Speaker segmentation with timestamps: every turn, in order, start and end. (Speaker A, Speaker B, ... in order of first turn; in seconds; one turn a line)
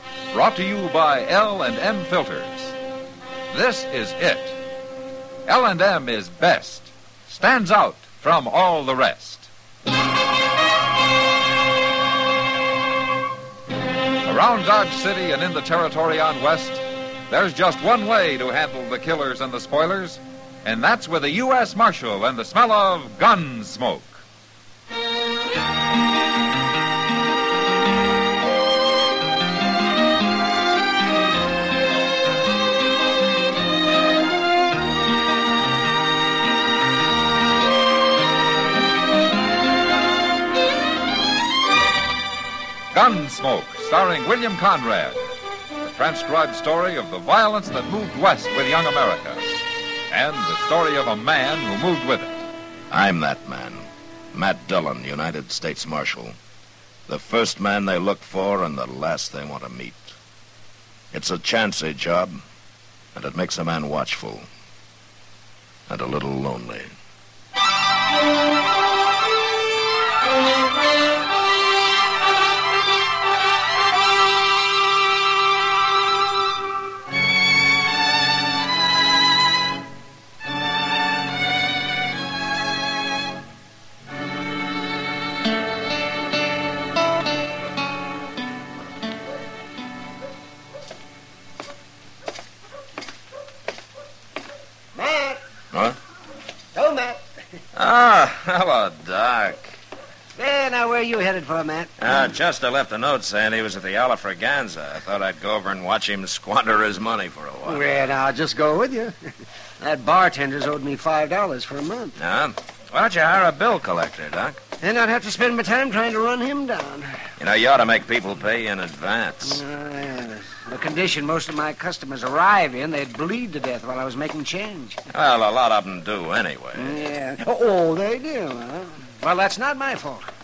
Speaker A: 0.3-2.7
Speaker A: 3.5-4.6
Speaker A: 5.5-9.5
Speaker A: 14.2-24.2
Speaker A: 42.9-45.2
Speaker A: 45.8-52.4
Speaker B: 52.9-56.3
Speaker B: 57.1-60.1
Speaker B: 61.1-62.4
Speaker B: 63.1-64.5
Speaker B: 65.9-66.9
Speaker C: 94.9-95.4
Speaker C: 96.7-97.2
Speaker B: 97.7-99.7
Speaker C: 100.3-101.9
Speaker B: 102.0-107.8
Speaker C: 107.6-109.3
Speaker C: 109.8-112.1
Speaker B: 112.2-114.6
Speaker C: 114.8-117.2
Speaker B: 117.4-119.6
Speaker C: 119.5-125.0
Speaker B: 125.1-127.0
Speaker C: 126.8-130.3